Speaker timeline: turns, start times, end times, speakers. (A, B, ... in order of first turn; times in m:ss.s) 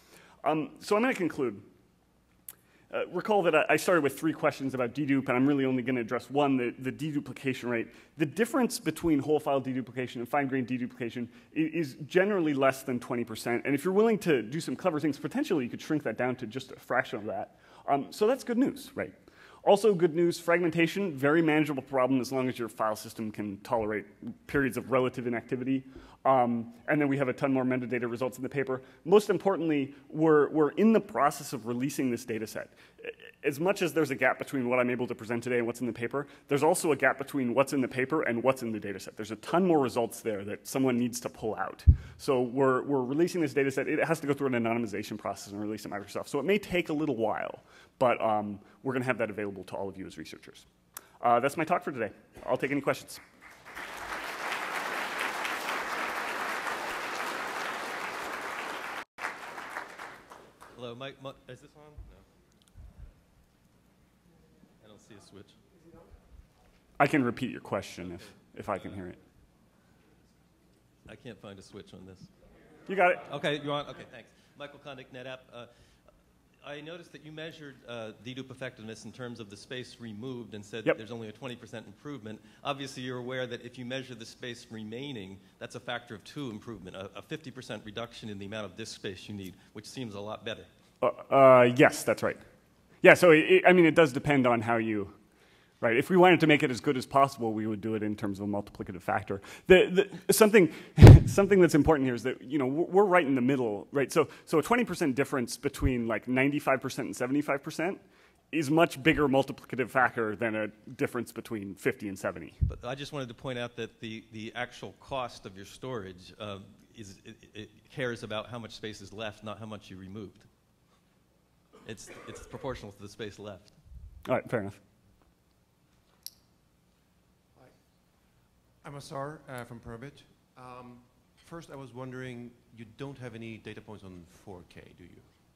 0:00.4-0:01.7 A
0:02.9-0:50.7 A
0:51.2-0:53.2 A
1:00.8-1:02.2 B
1:04.8-1:05.6 B
1:07.0-1:09.2 A
1:11.0-1:12.3 B
1:12.9-1:13.3 A
1:13.3-1:15.7 B
1:16.6-1:30.7 B
1:31.0-1:32.4 A
1:33.0-1:35.2 A
1:35.8-1:48.0 A
1:48.5-1:52.6 A
1:52.7-2:00.5 B
2:01.8-2:03.8 B
2:04.2-2:04.8 A
2:08.8-2:15.3 C